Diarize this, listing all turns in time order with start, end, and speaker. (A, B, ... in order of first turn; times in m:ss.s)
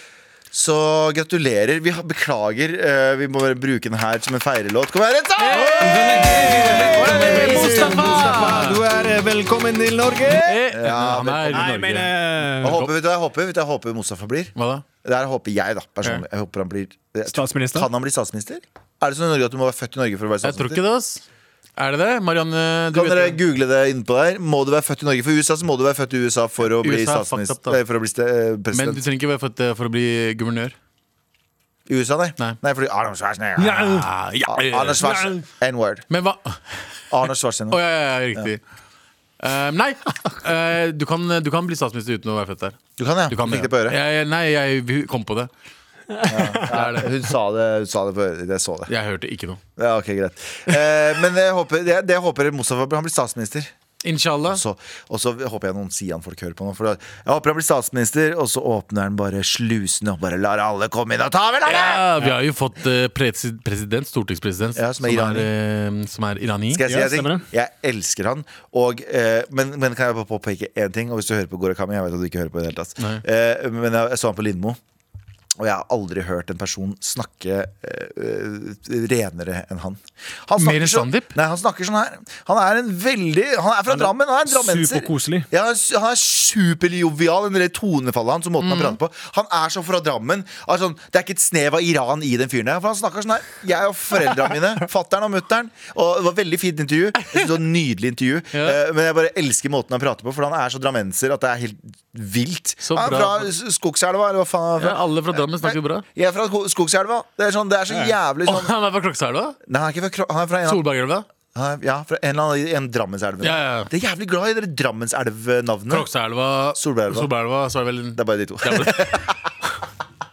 0:00.5-0:08.3 A
0:05.4-0:08.8 B
0:05.6-0:10.6 C
0:10.4-0:12.9 B
0:10.7-0:12.0 A
0:11.5-0:12.8 C
0:12.6-0:14.5 A
0:14.6-0:14.8 B
0:15.0-0:20.8 A
0:17.3-0:17.9 C
0:20.4-0:21.2 B
0:21.8-0:23.4 B
0:22.9-0:29.0 A
0:26.8-0:27.8 B
0:28.7-0:30.7 B
0:31.9-0:36.0 A
0:33.6-0:35.5 B
0:36.1-0:36.9 B
0:37.1-0:37.8 A
0:37.7-0:38.6 B
0:39.4-0:45.5 B
0:43.0-0:44.0 A
0:46.1-0:46.6 C
0:46.2-0:48.9 A
0:46.5-0:47.1 B
0:48.9-0:49.6 B
0:49.8-0:53.7 A
0:54.0-0:54.6 B
0:54.5-1:02.1 A
1:01.6-1:06.8 B
1:04.8-1:05.5 A
1:06.7-1:14.8 A
1:06.8-1:07.4 C
1:15.6-1:48.7 A
1:20.6-1:21.3 B
1:23.9-1:25.5 C
1:28.6-1:29.0 B
1:37.2-1:37.6 B
1:38.5-1:38.8 B
1:42.8-1:43.5 B
1:44.8-1:46.0 B
1:48.4-1:49.6 B
1:49.7-1:50.8 A
1:50.6-1:51.2 B
1:51.5-1:56.1 A
1:53.4-1:53.9 B
1:55.9-1:59.3 B
1:56.8-1:57.3 A
1:58.2-1:59.4 A